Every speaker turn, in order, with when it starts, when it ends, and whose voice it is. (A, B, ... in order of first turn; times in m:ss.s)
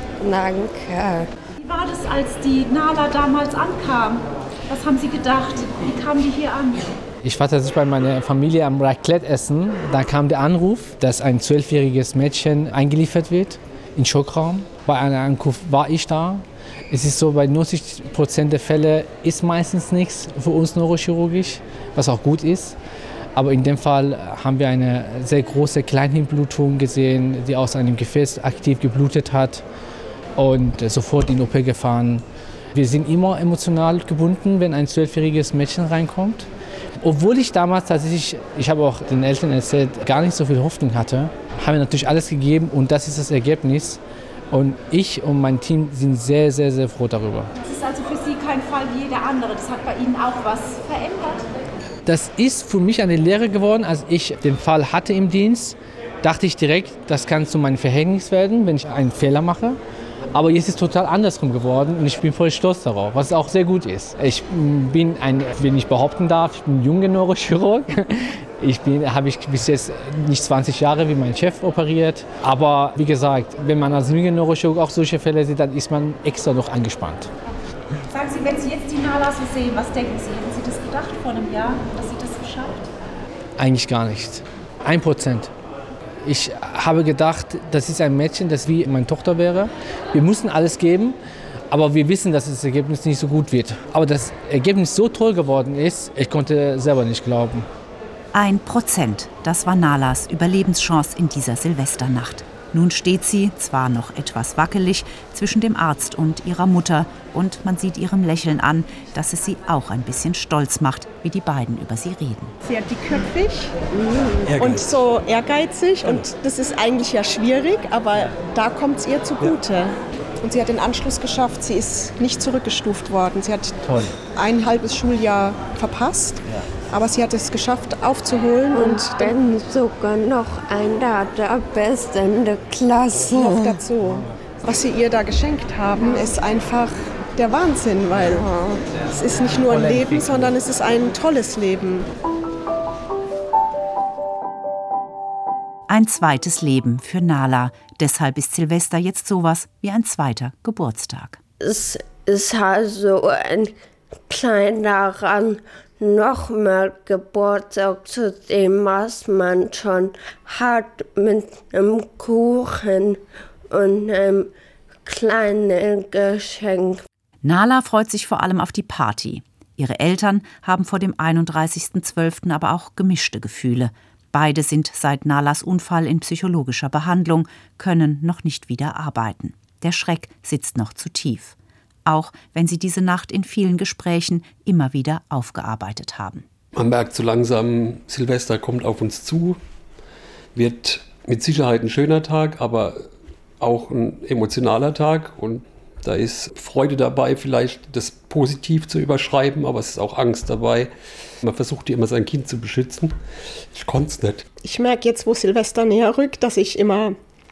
0:00.2-0:01.3 A
0:01.6-0:07.0 B
0:07.2-0:22.8 C
0:23.4-0:29.6 C
0:30.4-0:36.5 C
0:37.0-0:44.0 C
0:44.5-0:47.5 C
0:47.6-0:51.5 B
0:52.1-0:59.8 C
1:00.3-1:17.3 C
1:18.1-1:22.9 B
1:23.6-1:25.5 C
1:26.2-1:31.2 C
1:31.7-1:37.7 C
1:38.3-1:52.6 D
1:52.6-1:53.8 E
1:54.0-1:54.3 A
1:54.4-1:55.0 F
1:54.6-2:03.8 E
2:03.8-2:04.2 C
2:04.4-2:09.3 E
2:08.7-2:13.8 A
2:13.3-2:22.1 E
2:19.6-2:20.5 C
2:25.9-2:31.4 D
2:31.6-2:33.7 A
2:34.3-2:43.2 A
2:43.7-2:44.5 A
2:45.1-2:47.0 A
2:47.4-3:06.4 D
3:06.8-3:09.6 F
3:10.6-3:13.1 F
3:13.6-3:20.9 F
3:21.4-3:23.1 F
3:23.7-3:24.4 F
3:24.6-3:27.2 E